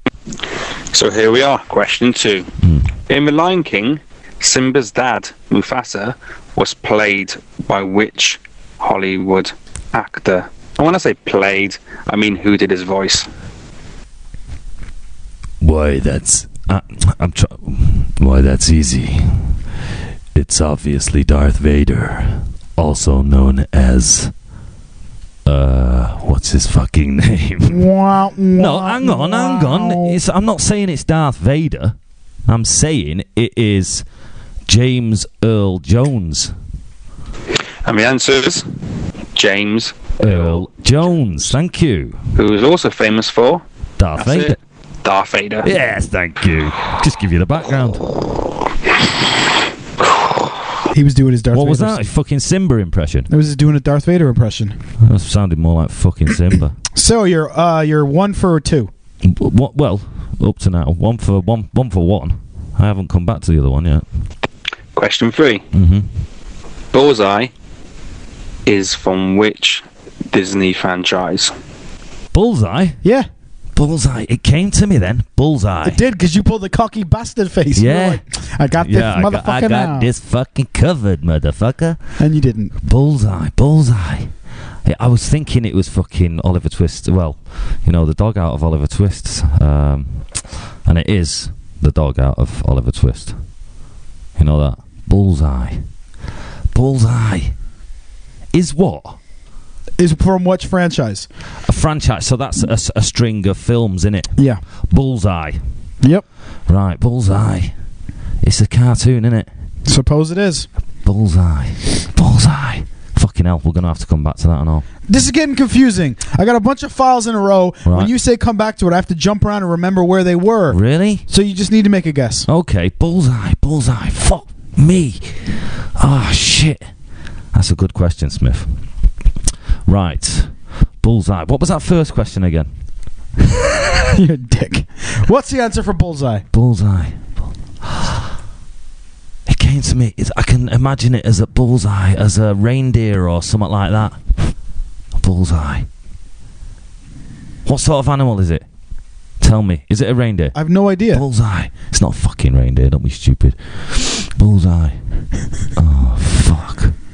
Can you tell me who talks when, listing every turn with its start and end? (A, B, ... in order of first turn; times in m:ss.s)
0:00.9-0:02.5 A
0:02.6-0:02.9 B
0:03.1-0:13.3 A
0:15.6-0:19.6 B
0:20.3-0:24.3 B
0:25.4-0:27.9 B
0:27.7-0:30.2 C
0:28.6-0:32.0 B
0:32.5-0:34.1 B
0:34.7-0:36.5 B
0:37.8-0:38.7 A
0:39.4-0:40.6 A
0:40.2-0:42.2 B
0:42.4-0:43.6 A
0:44.0-0:44.6 B
0:44.2-0:45.7 A
0:45.6-0:48.1 B
0:50.0-0:50.3 A
0:50.9-0:52.0 C
0:51.5-0:53.3 B
0:53.3-0:54.8 C
0:55.0-0:56.8 B
0:57.0-0:58.9 C
0:59.2-1:04.1 B
1:04.9-1:05.6 A
1:05.7-1:06.1 B
1:06.9-1:07.5 A
1:08.7-1:11.5 A
1:12.3-1:13.0 B
1:13.0-1:13.3 C
1:13.8-1:16.0 B
1:15.8-1:20.1 C
1:17.8-1:22.0 B
1:22.2-1:22.7 C
1:22.8-1:24.3 B
1:24.8-1:33.4 B
1:34.4-1:35.8 B
1:36.7-1:37.5 B
1:38.5-1:39.2 B
1:40.0-1:41.3 C
1:41.7-1:44.3 B
1:44.4-1:44.6 C
1:44.9-1:45.6 B
1:46.7-1:47.7 B
1:48.4-1:49.5 B
1:49.9-1:50.7 C
1:51.0-1:54.9 B
1:55.1-2:02.5 C
1:57.8-1:58.1 B
2:00.7-2:01.2 B
2:02.5-2:06.9 B
2:07.5-2:08.8 B
2:09.9-2:12.7 B
2:13.4-2:14.1 B
2:14.1-2:16.4 C
2:16.5-2:17.3 B
2:17.8-2:18.2 B
2:19.5-2:24.2 B
2:25.2-2:25.9 B
2:27.7-2:28.6 B
2:29.4-2:30.6 B
2:30.6-2:31.2 C
2:31.1-2:35.0 B
2:35.8-2:37.0 B